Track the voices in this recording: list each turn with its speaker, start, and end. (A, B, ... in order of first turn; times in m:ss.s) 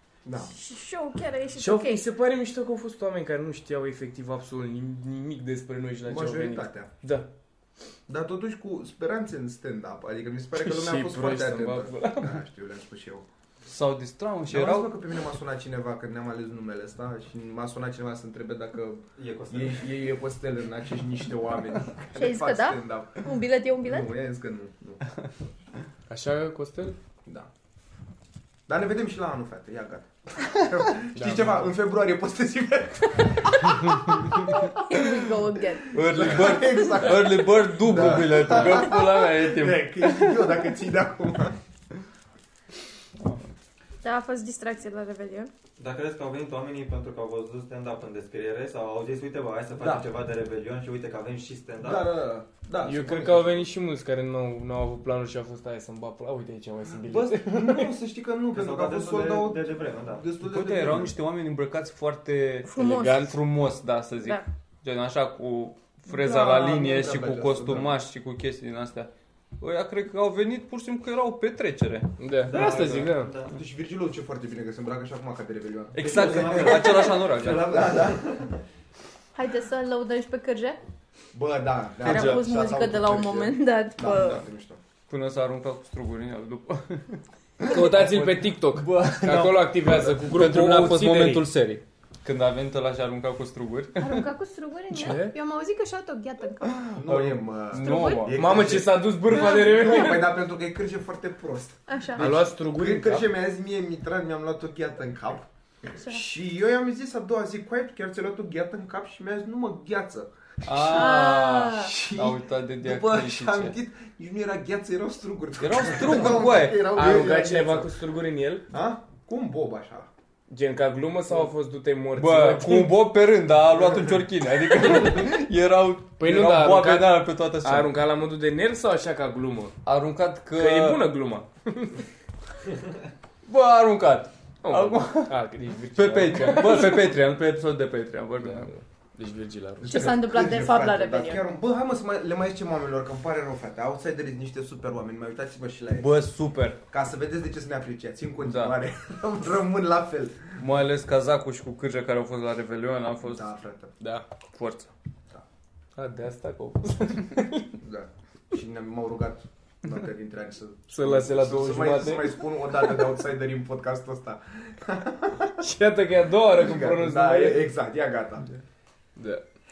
0:00.2-0:00.5 A
0:00.5-0:02.1 B
0:01.6-0:07.3 C
0:06.0-0:06.9 A
0:08.1-0:13.3 A
0:10.6-0:12.4 C
0:13.6-0:14.9 D
0:14.5-0:23.3 A
0:19.2-0:19.9 E
0:22.2-0:24.1 B
0:23.8-0:25.1 A
0:26.1-0:27.0 C
0:28.7-0:34.6 A
0:31.2-0:31.7 C
0:33.7-0:36.6 B
0:35.9-0:40.5 D
0:35.9-0:41.6 A
0:44.0-0:45.5 B
0:45.8-0:52.1 E
0:49.8-0:50.1 A
0:51.8-0:53.7 A
0:52.8-0:57.9 C
0:57.1-1:01.2 A
0:58.5-1:00.2 E
1:00.4-1:12.1 D
1:02.7-1:03.3 B
1:02.8-1:03.4 C
1:06.1-1:08.0 A
1:12.2-1:13.3 C
1:12.5-1:13.5 E
1:13.4-1:18.2 A
1:15.9-1:17.7 D
1:16.0-1:18.6 E
1:19.4-1:20.8 B
1:21.3-1:24.8 A
1:22.0-1:22.5 D
1:22.0-1:24.4 B
1:25.1-1:34.3 D
1:27.6-1:31.4 C
1:34.0-1:36.9 B
1:34.9-1:35.3 C
1:36.9-1:38.7 D
1:37.0-1:45.5 A
1:37.7-1:38.3 B
1:38.4-1:40.4 C
1:39.3-1:40.2 B
1:41.9-1:42.2 B
1:42.2-1:43.3 C
1:46.0-1:46.2 B
1:46.0-1:58.0 A
1:50.6-1:53.8 D
1:50.8-1:51.9 B
1:55.6-1:57.4 D
1:56.8-1:58.6 C
1:58.7-2:00.1 A
2:00.5-2:03.0 C
2:02.2-2:07.9 D
2:06.2-2:09.8 C
2:09.8-2:11.1 D
2:10.6-2:12.0 C
2:13.5-2:15.4 D
2:14.6-2:17.2 C
2:15.9-2:18.7 D
2:18.4-2:20.2 C
2:19.8-2:26.2 A
2:19.9-2:21.4 B
2:25.9-2:26.8 D
2:26.9-2:30.6 A
2:28.4-2:28.8 D
2:30.6-2:33.5 D
2:33.2-2:33.9 A
2:34.0-2:34.3 C
2:34.5-2:34.9 D
2:36.0-2:37.7 C
2:37.8-2:45.6 A
2:40.9-2:43.1 C
2:45.6-2:47.7 C
2:46.5-2:48.5 A
2:49.2-2:49.4 C